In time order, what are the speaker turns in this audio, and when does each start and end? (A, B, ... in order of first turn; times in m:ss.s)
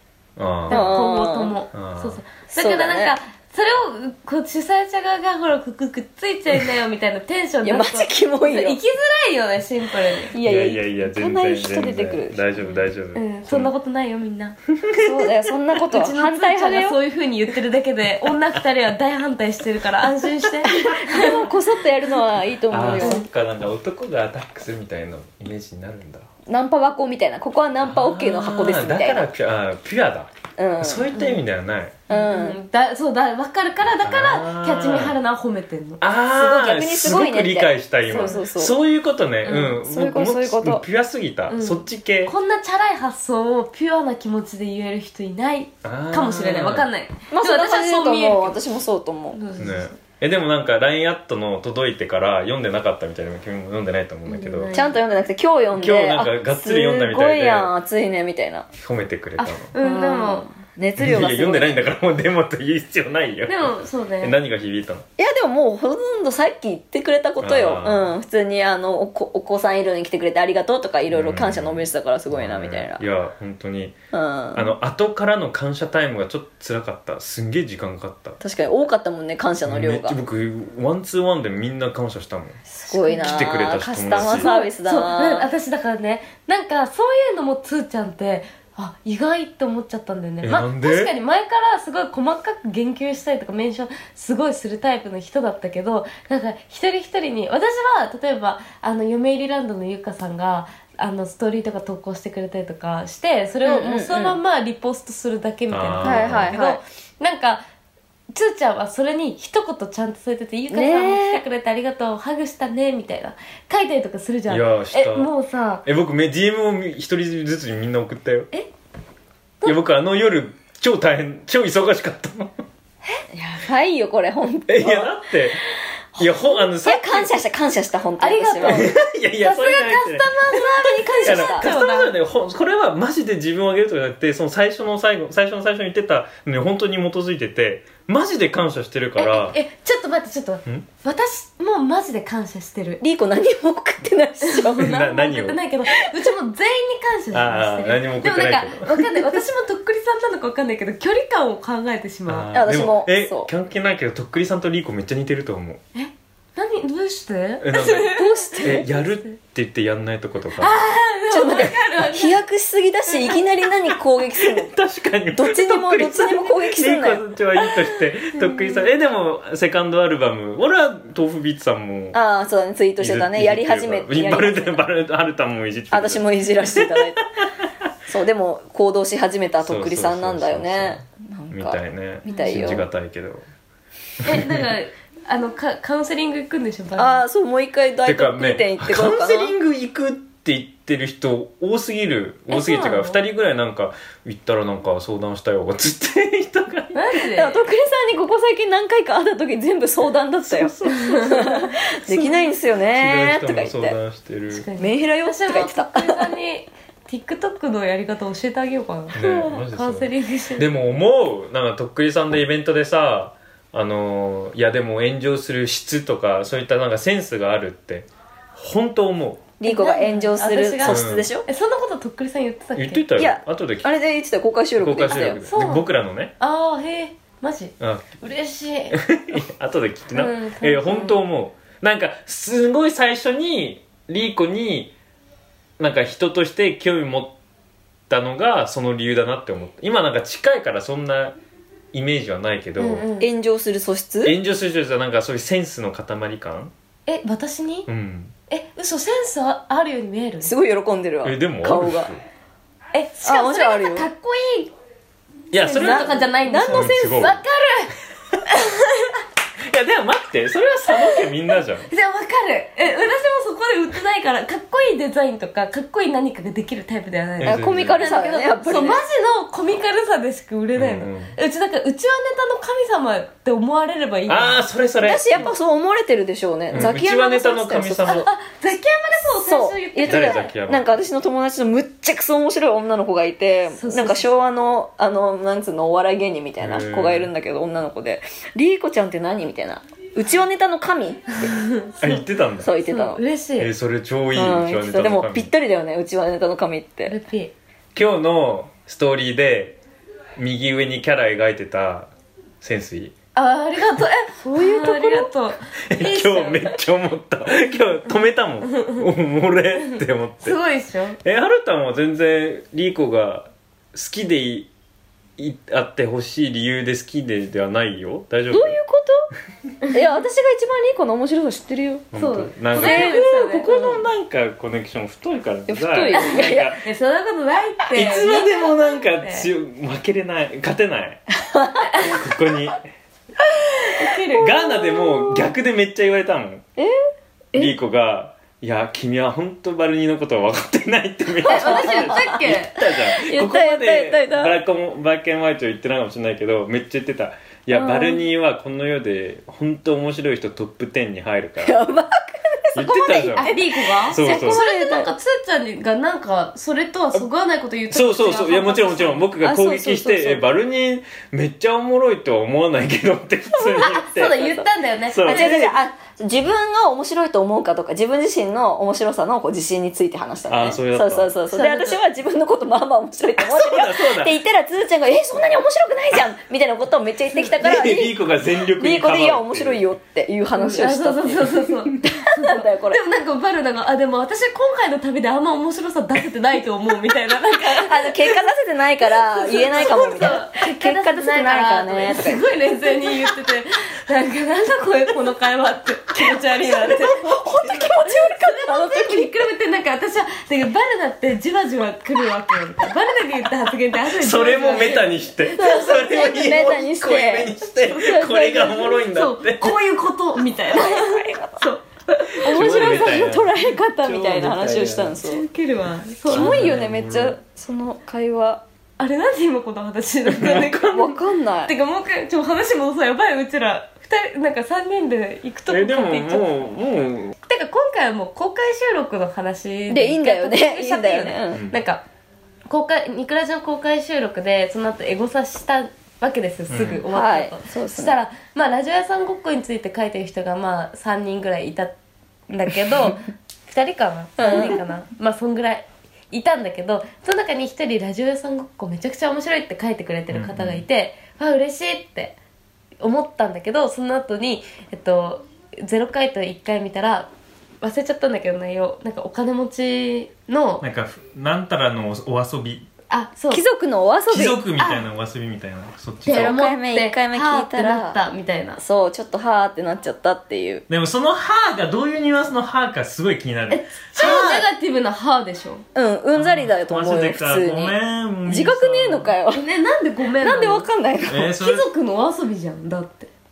0:00.4-0:00.9 A
0:00.7-0:10.3 B
0:00.7-0:01.5 C
0:01.7-0:02.2 A
0:02.5-0:03.1 C
0:07.6-0:08.8 C
0:10.3-0:12.4 C
0:10.4-0:13.7 A
0:13.1-0:14.6 B
0:14.8-0:15.3 A
0:14.9-0:17.0 C
0:15.9-0:21.5 B
0:20.6-0:23.2 C
0:22.7-0:26.3 A
0:23.0-0:23.2 B
0:26.5-0:29.3 C
0:27.8-0:32.0 A
0:30.6-0:31.1 C
0:32.1-0:32.6 C
0:32.1-0:36.0 B
0:34.0-0:35.2 A
0:36.0-0:42.3 A
0:36.4-0:38.8 C
0:38.1-0:38.4 B
0:39.4-0:39.8 B
0:39.5-0:40.8 C
0:41.5-0:48.6 B
0:45.8-0:46.9 A
0:47.3-0:49.4 C
0:49.3-0:50.0 B
0:49.6-0:54.7 A
0:54.3-0:55.0 B
0:54.7-0:58.7 C
0:55.7-0:57.7 A
0:58.8-0:59.7 A
0:59.4-1:00.5 B
0:59.8-1:01.9 C
1:01.0-1:05.0 A
1:03.5-1:04.4 B
1:05.2-1:13.0 C
1:07.4-1:08.1 A
1:11.1-1:14.0 A
1:14.1-1:14.7 C
1:14.5-1:18.4 A
1:18.4-1:20.2 C
1:19.7-1:22.6 A
1:22.7-1:25.5 C
1:22.9-1:23.4 B
1:23.2-1:24.5 A
1:24.1-1:47.6 B
1:30.4-1:31.1 A
1:43.6-1:44.4 C
1:45.7-1:46.6 A
1:46.0-1:46.8 C
1:48.3-1:55.8 B
1:50.7-1:51.4 C
1:54.5-1:55.3 A
1:55.8-1:58.5 A
1:59.6-2:02.6 A
2:03.3-2:05.1 C
2:04.7-2:05.6 A
2:06.2-2:08.9 C
2:06.2-2:07.3 A
2:08.2-2:12.1 B
2:08.7-2:10.3 A
2:10.6-2:11.7 C
2:11.2-2:19.6 A
2:19.2-2:23.0 B
2:23.0-2:24.8 C
2:24.4-2:32.5 B
2:24.8-2:25.6 A
2:27.3-2:29.4 A
2:32.3-2:35.8 A
2:32.5-2:33.5 C
2:36.0-2:39.3 B
2:37.6-2:40.8 A
2:37.9-2:38.9 C
2:40.6-2:42.4 B
2:41.3-2:44.7 C
2:43.1-2:43.4 B
2:44.4-2:52.2 A
2:45.4-2:47.2 C
2:47.6-2:48.9 B
2:52.1-2:54.8 C
2:53.0-2:57.4 A
2:55.9-2:57.2 C
2:58.1-3:02.8 C
2:59.6-3:03.4 A
3:02.3-3:02.8 B
3:04.2-3:04.7 A
3:04.2-3:07.2 B
3:07.0-3:09.5 C
3:08.0-3:17.1 A
3:12.5-3:13.2 B
3:16.9-3:17.6 B
3:17.3-3:24.0 C
3:20.5-3:21.4 A
3:20.9-3:21.7 B
3:22.1-3:24.7 A
3:24.5-3:30.7 B
3:24.8-3:26.3 C
3:29.1-3:39.5 A
3:39.6-3:41.4 C
3:39.6-3:43.0 B
3:40.8-3:41.3 A
3:42.7-3:43.9 A
3:43.2-3:45.4 C
3:44.8-3:46.3 A
3:45.1-3:45.9 B
3:46.4-3:49.0 B
3:47.8-3:48.0 A
3:48.9-3:54.9 A
3:50.1-3:51.2 B
3:55.8-3:57.3 A
3:58.1-4:01.4 A
4:01.9-4:03.1 A
4:02.8-4:03.3 B
4:03.2-4:04.3 C
4:04.2-4:06.7 A
4:07.1-4:07.9 B
4:07.9-4:08.3 A
4:08.5-4:10.5 B
4:10.4-4:12.1 C
4:11.2-4:12.2 A
4:12.9-4:14.7 B
4:13.2-4:14.1 C
4:15.5-4:17.4 A
4:15.5-4:17.9 B
4:15.8-4:17.3 C
4:18.5-4:19.2 B
4:19.7-4:21.9 A
4:21.9-4:34.7 B
4:27.4-4:28.0 A
4:27.4-4:29.0 C
4:30.7-4:31.3 A
4:34.3-4:35.5 A
4:35.0-4:38.1 C
4:36.7-4:38.3 A
4:38.0-4:40.5 B
4:39.4-4:51.2 C
4:40.0-4:40.9 A
4:43.7-4:44.3 B
4:46.6-4:47.3 A
4:51.4-4:52.2 B
4:52.0-4:52.7 A
4:52.6-4:53.2 C
4:52.8-4:53.7 B
4:53.6-4:55.5 A
4:54.3-4:57.1 C
4:57.1-4:57.5 B
4:58.0-4:59.8 A
5:00.4-5:02.1 A
5:02.6-5:03.1 A
5:03.3-5:06.8 B
5:04.5-5:05.3 C
5:05.9-5:10.6 A
5:08.6-5:09.1 B
5:09.9-5:11.2 B
5:11.2-5:14.7 A
5:15.4-5:18.8 A
5:18.5-5:19.3 C
5:19.9-5:22.0 C
5:22.1-5:26.8 A
5:22.2-5:23.7 B
5:22.7-5:24.0 C
5:25.7-5:26.8 C
5:26.2-5:29.5 B
5:27.9-5:31.2 A
5:28.0-5:28.3 C
5:31.3-5:32.2 C
5:32.0-5:32.8 A
5:33.4-5:33.9 C
5:33.9-5:34.8 B
5:34.4-5:36.6 A
5:34.4-5:35.4 C
5:37.6-5:51.8 A
5:41.4-5:42.7 B
5:41.4-5:44.6 C
5:47.7-5:48.2 C
5:51.6-5:55.1 C
5:52.7-5:53.5 A
5:53.3-5:59.3 B
5:54.1-5:54.6 A
5:57.9-6:04.4 A
5:59.4-6:00.5 C
6:03.6-6:04.6 C
6:03.8-6:05.6 B
6:05.1-6:05.7 A
6:05.2-6:18.2 C
6:10.5-6:11.3 A
6:11.5-6:12.0 B
6:13.4-6:14.3 A
6:17.6-6:19.8 A
6:18.8-6:23.0 C
6:20.6-6:28.4 B
6:27.6-6:32.4 C
6:29.0-6:45.7 B
6:36.6-6:39.4 C
6:44.1-6:49.8 A
6:45.5-6:49.0 C
6:48.6-6:53.1 B
6:50.7-6:51.7 C
6:52.4-6:55.4 C
6:52.4-6:55.2 A
6:55.2-6:56.7 B
6:56.3-6:57.4 A
6:56.3-6:58.6 C
6:59.0-7:01.1 B
7:00.3-7:01.1 A
7:00.9-7:01.7 C
7:01.7-7:06.7 B
7:05.7-7:07.3 A
7:07.4-7:12.0 B
7:09.9-7:11.6 C
7:11.6-7:11.8 A
7:12.7-7:21.9 B
7:16.7-7:17.0 A
7:17.1-7:18.2 C
7:22.5-7:32.4 B
7:24.4-7:24.8 C
7:30.3-7:30.8 A
7:33.0-7:37.3 B
7:37.8-7:40.8 B
7:40.8-7:42.9 A
7:43.1-7:43.6 B
7:43.5-7:44.6 C
7:44.3-7:46.6 A
7:44.8-7:45.0 B
7:46.2-7:48.8 B
7:46.3-7:48.2 C
7:48.8-7:50.8 C
7:50.9-7:54.6 A
7:53.7-7:55.8 B
7:54.2-7:54.6 C
7:56.0-7:58.0 C
7:56.4-7:59.3 A
7:58.4-7:59.6 C
7:59.5-8:00.9 B
8:00.4-8:01.5 C
8:01.3-8:01.8 A
8:01.5-8:03.3 B